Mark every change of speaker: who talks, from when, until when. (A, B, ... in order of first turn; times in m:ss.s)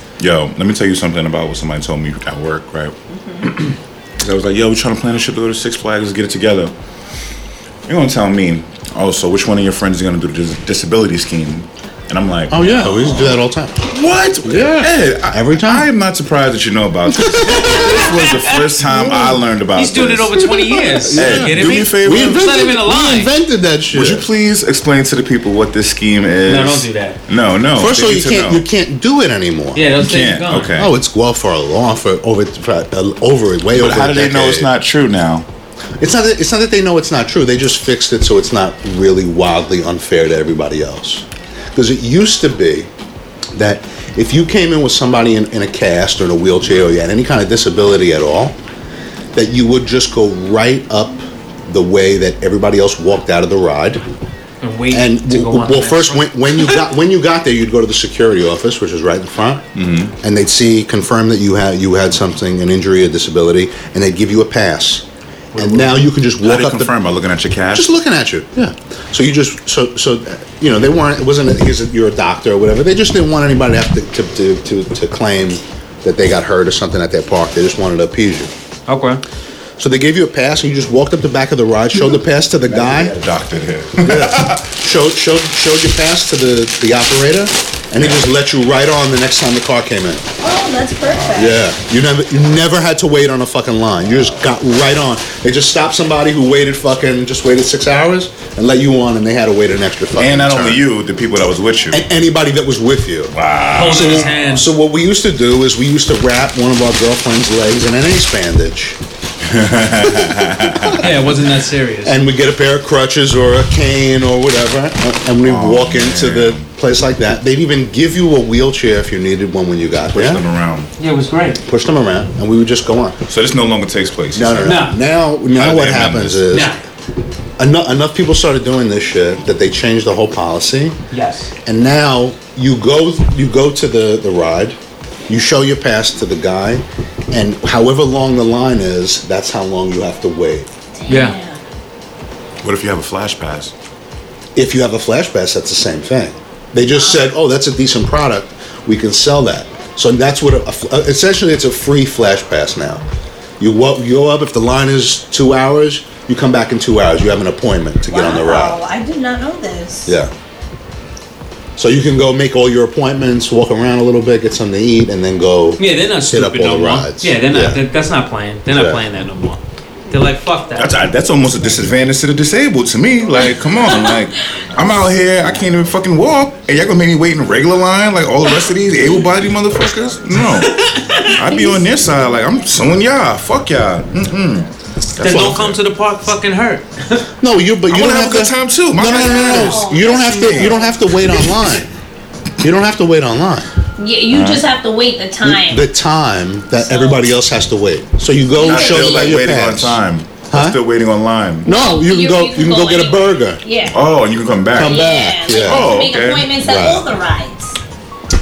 0:00.2-0:06.7 A
0:03.1-0:03.4 B
0:07.8-0:20.4 A
0:12.5-0:13.9 C
0:14.4-0:15.9 C
0:17.1-0:18.1 C
0:17.4-0:23.3 D
0:18.8-0:19.4 C
0:20.4-0:24.3 C
0:21.1-0:22.4 A
0:23.9-0:28.6 A
0:26.4-0:27.2 D
0:27.7-0:29.9 C
0:29.7-0:30.8 D
0:30.0-0:30.9 A
0:30.7-0:34.7 C
0:33.7-0:35.4 A
0:36.0-0:42.9 C
0:43.5-0:48.6 C
0:49.3-0:54.0 C
0:54.6-0:56.9 D
0:54.9-0:59.6 C
0:59.7-1:00.1 A
1:00.2-1:05.0 C
1:05.5-1:05.9 D
1:05.6-1:06.9 C
1:06.4-1:07.9 A
1:07.7-1:18.5 C
1:18.9-1:19.2 D
1:19.8-1:23.1 C
1:22.7-1:24.6 A
1:24.0-1:30.2 C
1:30.4-1:31.6 B
1:31.0-1:31.6 A
1:31.3-1:40.8 C
1:40.2-1:42.0 A
1:41.9-1:49.0 C
1:43.3-1:44.3 A
1:43.6-1:44.7 D
1:49.4-1:51.3 A
1:50.0-1:51.1 C
1:51.0-1:52.2 D
1:52.0-2:00.4 C
1:55.4-1:56.7 A
2:00.1-2:00.9 A
2:01.0-2:01.6 D
2:01.6-2:03.2 C
2:03.3-2:04.8 A
2:04.3-2:06.7 C
2:04.6-2:05.0 D
2:05.5-2:06.5 A
2:06.5-2:06.8 D
2:07.6-2:11.0 C
2:11.1-2:11.5 D
2:11.6-2:14.8 C
2:15.3-2:20.7 C
2:21.0-2:21.6 B
2:21.1-2:21.4 D
2:22.6-2:23.7 A
2:24.5-2:33.0 C
2:27.0-2:27.3 B
2:33.6-2:38.8 C
2:38.1-2:40.2 B
2:40.1-2:40.3 C
2:41.8-2:47.8 C
2:45.8-2:51.0 D
2:48.7-2:49.0 C
2:50.8-3:05.8 A
2:53.9-2:54.2 B
3:00.4-3:01.3 D
3:01.3-3:02.7 B
3:05.2-3:07.3 D
3:05.2-3:05.7 C
3:07.4-3:11.9 C
3:07.9-3:10.8 A
3:09.1-3:11.6 B
3:12.6-3:13.7 C
3:14.0-3:15.9 B
3:14.3-3:14.6 A
3:15.4-3:20.8 C
3:16.8-3:17.3 B
3:18.6-3:19.4 B
3:18.6-3:21.7 A
3:21.6-3:23.6 C
3:21.6-3:24.0 B
3:23.9-3:26.5 A
3:24.7-3:26.0 C
3:24.7-3:27.8 B
3:26.6-3:27.0 C